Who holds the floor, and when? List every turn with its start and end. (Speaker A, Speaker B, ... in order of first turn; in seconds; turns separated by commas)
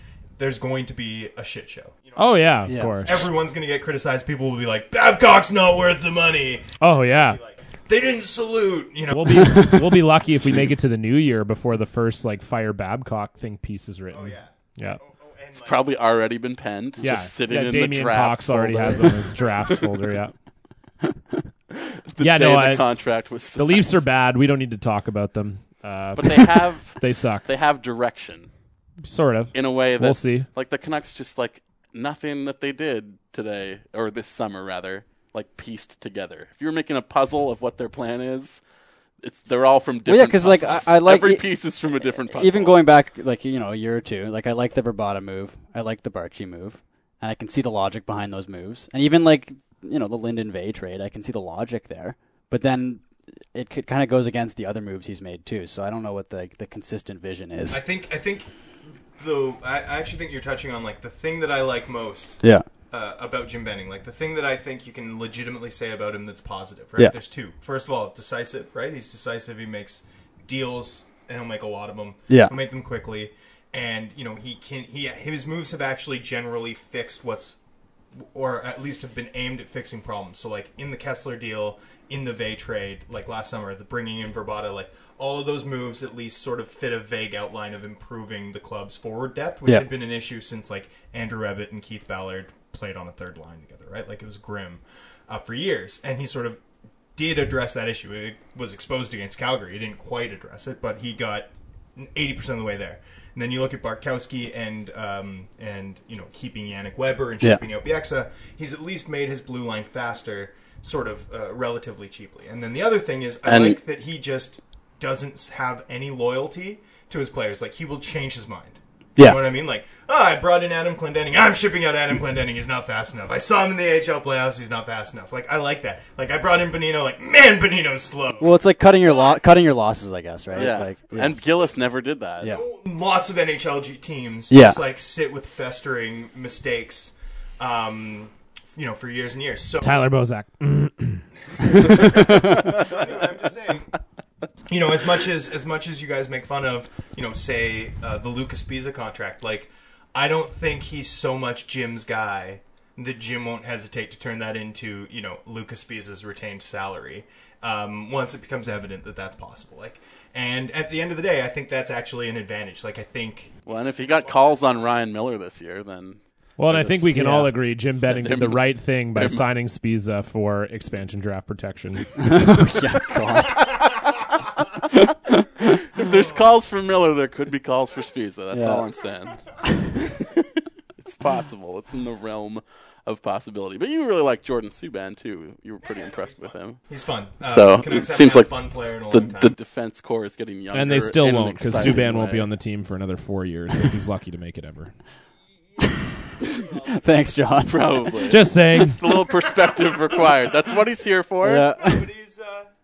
Speaker A: 0.4-10.1, Speaker B: 2.2-3.3, Speaker C: 2.7-3.0, Speaker B: 6.8-7.4, Speaker B: 9.1-15.0, Speaker A: 14.1-15.9, Speaker D: 15.6-19.8, Speaker B: 17.0-20.3, Speaker D: 21.7-24.0, Speaker B: 22.2-22.8, Speaker B: 23.6-27.5, Speaker D: 26.2-28.5, Speaker B: 29.0-30.5, Speaker D: 29.5-38.6, Speaker D: 39.2-42.9, Speaker C: 40.1-41.6, Speaker C: 42.1-57.8, Speaker A: 57.7-77.6, Speaker C: 72.3-72.5, Speaker A: 78.2-96.6, Speaker A: 97.2-129.6, Speaker D: 113.5-113.8, Speaker C: 128.4-131.4, Speaker A: 130.5-130.8, Speaker D: 130.5-132.6, Speaker A: 132.4-140.1, Speaker C: 134.5-134.8, Speaker B: 139.8-142.2, Speaker A: 141.7-143.9, Speaker C: 142.0-142.7, Speaker A: 144.7-164.6, Speaker D: 163.7-167.1, Speaker B: 166.6-172.3, Speaker C: 167.2-167.5, Speaker D: 168.1-169.5, Speaker C: 172.2-173.9, Speaker D: 175.7-179.4, Speaker C: 178.5-178.8, Speaker D: 181.0-186.8, Speaker A: 186.0-189.5, Speaker D: 187.4-188.6, Speaker D: 189.1-192.5, Speaker B: 190.7-194.9, Speaker C: 195.8-198.3, Speaker A: 196.4-197.4, Speaker D: 197.7-201.7, Speaker B: 198.3-199.0, Speaker A: 199.7-200.4, Speaker C: 201.4-202.1, Speaker A: 201.7-202.7